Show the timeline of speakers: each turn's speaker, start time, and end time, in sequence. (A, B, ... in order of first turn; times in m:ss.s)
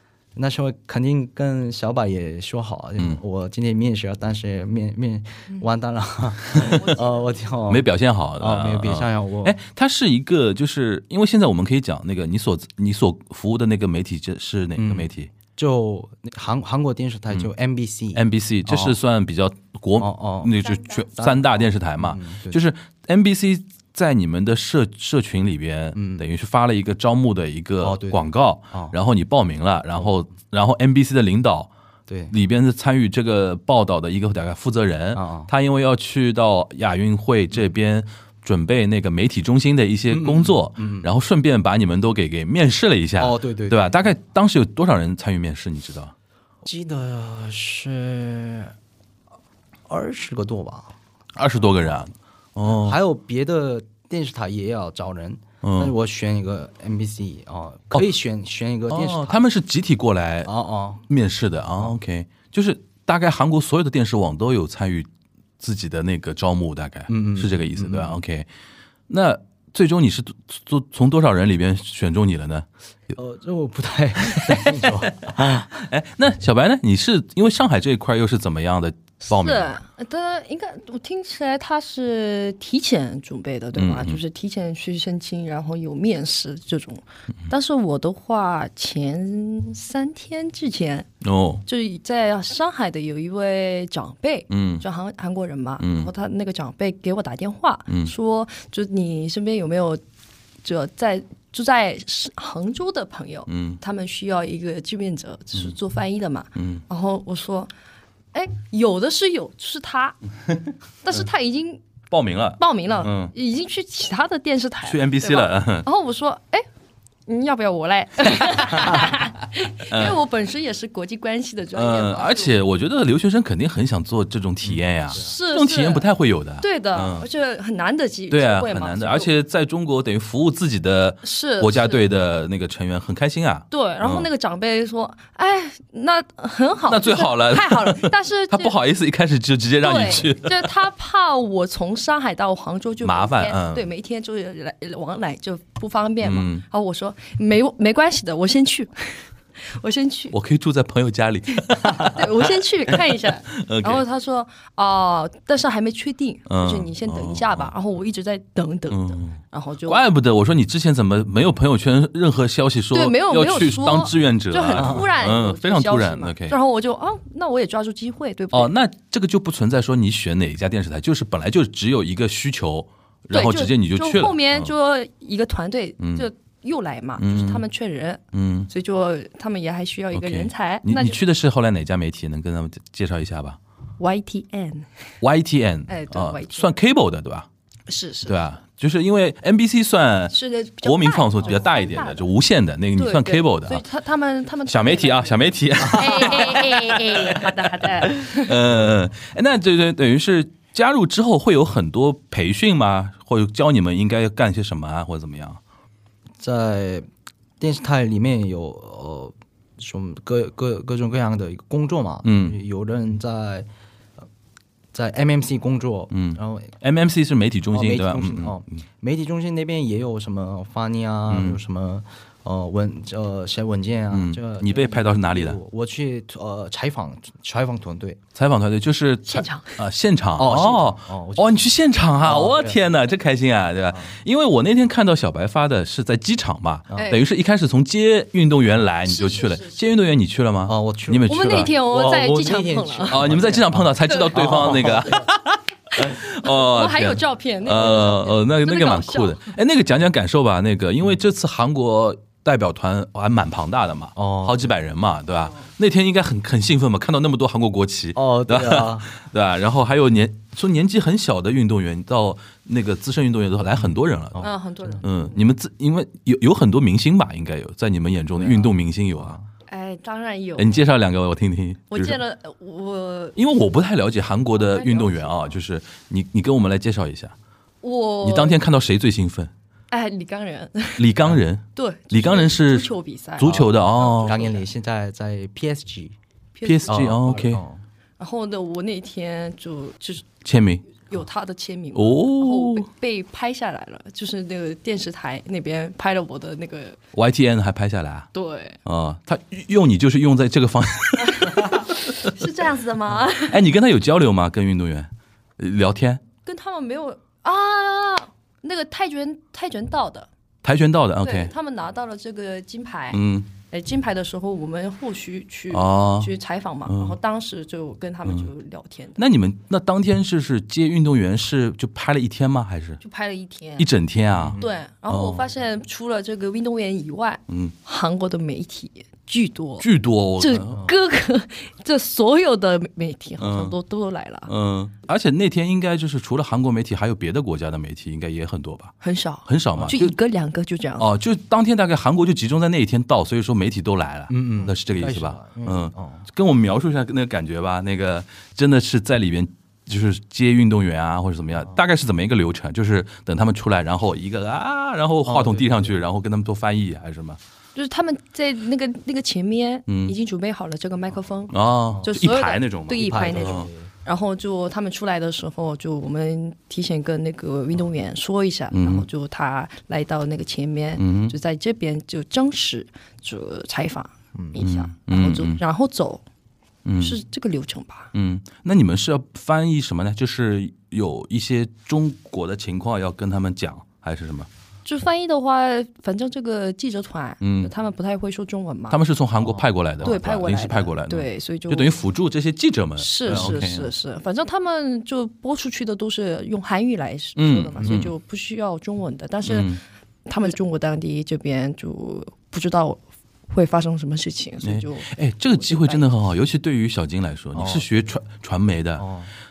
0:00.4-0:07.8 A
0:06.6-0:07.6 B
0:07.7-0:15.3 C
0:08.4-0:09.6 A
0:14.8-0:19.0 A
0:18.1-0:31.7 C
0:20.0-0:22.6 A
0:25.9-0:26.2 A
0:27.8-0:28.9 A
0:32.1-0:32.3 A
0:32.3-0:46.1 C
0:35.1-0:35.5 A
0:40.1-0:41.1 A
0:43.2-0:44.0 A
0:46.6-0:48.7 A
0:49.9-0:50.9 A
0:51.3-0:53.0 C
0:52.7-0:59.4 A
0:55.6-0:55.9 C
0:58.9-1:00.5 C
1:00.4-1:01.0 A
1:01.1-1:05.1 C
1:05.6-1:08.5 C
1:07.1-1:08.2 A
1:09.1-1:12.7 C
1:13.1-1:15.7 A
1:14.2-1:19.8 C
1:19.2-1:31.1 B
1:23.8-1:24.2 C
1:31.2-1:31.6 C
1:31.6-1:40.0 B
1:34.5-1:34.8 C
1:35.8-1:36.1 C
1:37.9-1:38.1 C
1:40.6-1:47.7 B
1:43.5-1:43.8 C
1:46.6-1:46.8 C
1:48.3-1:50.2 B
1:51.0-1:51.8 B
1:52.1-1:53.3 C
1:52.6-1:56.6 B
1:54.8-1:55.9 C
1:57.3-2:02.6 B
1:59.9-2:00.2 C
2:01.7-2:07.2 C
2:05.1-2:06.1 B
2:06.6-2:09.3 B
2:08.3-2:14.3 C
2:11.2-2:12.0 B
2:13.7-2:18.7 B
2:16.9-2:20.6 C
2:19.8-2:30.4 B
2:23.0-2:23.8 C
2:26.2-2:26.6 C
2:30.3-2:32.3 C
2:32.0-2:40.0 B
2:33.5-2:34.0 C
2:36.5-2:37.7 C
2:38.9-2:46.6 C
2:42.9-2:48.7 B
2:44.7-2:45.1 A
2:48.5-2:54.7 C
2:53.3-3:01.2 B
2:56.0-2:56.2 C
2:57.2-2:57.6 C
2:58.3-2:58.7 C
3:00.1-3:03.6 C
3:04.0-3:04.9 B
3:05.2-3:07.5 C
3:05.9-3:06.7 B
3:07.9-3:08.4 B
3:08.2-3:13.8 C
3:10.3-3:12.3 B
3:13.0-3:18.6 B
3:14.7-3:25.6 C
3:26.4-3:27.1 A
3:27.6-3:33.7 A
3:32.2-3:32.6 C
3:34.9-3:36.7 A
3:36.1-3:38.6 C
3:37.7-3:48.2 A
3:41.3-3:41.6 C
3:44.1-3:45.6 C
3:48.3-4:01.7 C
3:49.2-3:49.8 B
3:50.4-3:51.7 A
3:52.2-3:52.8 A
3:53.9-3:54.2 A
3:56.9-3:57.2 B
3:59.0-3:59.8 B
4:00.7-4:05.2 A
4:01.3-4:03.2 B
4:03.1-4:29.4 C
4:04.0-4:05.0 B
4:05.9-4:09.5 B
4:14.2-4:14.7 A
4:15.4-4:15.7 B
4:18.1-4:19.1 A
4:24.3-4:24.9 A
4:24.4-4:25.4 B
4:28.4-4:29.5 A
4:29.7-4:30.8 B
4:30.6-4:32.2 C
4:31.9-4:33.4 B
4:33.4-4:37.3 C
4:34.6-4:35.5 B
4:37.8-4:38.6 B
4:38.2-4:39.5 C
4:39.9-4:41.2 B
4:41.0-4:44.4 C
4:41.7-4:44.6 B
4:43.4-4:43.7 A
4:44.2-4:46.1 A
4:46.6-4:47.0 B
4:46.6-4:47.6 C
4:46.9-4:47.8 A
4:48.2-4:50.3 B
4:50.4-4:50.9 C
4:50.9-4:57.0 B
4:51.9-4:52.9 C
4:57.1-4:58.3 C
4:58.3-4:58.8 B
4:58.8-5:02.0 C
5:01.2-5:03.6 B
5:03.5-5:06.2 C
5:06.4-5:10.3 B
5:10.6-5:11.5 C
5:11.2-5:19.2 B
5:13.1-5:13.5 C
5:15.7-5:16.3 C
5:16.8-5:17.2 C
5:19.2-5:23.0 C
5:23.0-5:23.9 B
5:23.8-5:25.5 C
5:24.3-5:24.7 A
5:24.6-5:34.5 B
5:27.5-5:27.7 C
5:29.8-5:30.8 C
5:30.6-5:30.9 A
5:33.4-5:33.7 C
5:34.5-5:38.9 C
5:39.0-5:41.1 B
5:39.4-5:40.2 C
5:41.0-5:57.4 C
5:44.3-5:46.3 A
5:55.2-5:56.0 A
5:57.7-6:16.2 B
5:59.9-6:00.1 C
6:01.5-6:03.7 C
6:01.9-6:02.2 A
6:03.0-6:03.9 A
6:08.7-6:09.1 C
6:11.0-6:11.3 C
6:14.6-6:15.6 C
6:16.8-6:17.2 C
6:17.0-6:18.1 B
6:18.1-6:24.5 C
6:24.8-6:29.0 B
6:27.4-6:27.7 C
6:28.9-6:33.9 C
6:29.4-6:30.1 A
6:30.0-6:31.9 B
6:33.0-6:46.1 B
6:33.3-6:33.6 A
6:37.4-6:38.1 C
6:37.8-6:38.1 A
6:39.4-6:39.8 C
6:44.6-6:49.0 C
6:47.5-6:47.8 A
6:49.0-6:49.3 A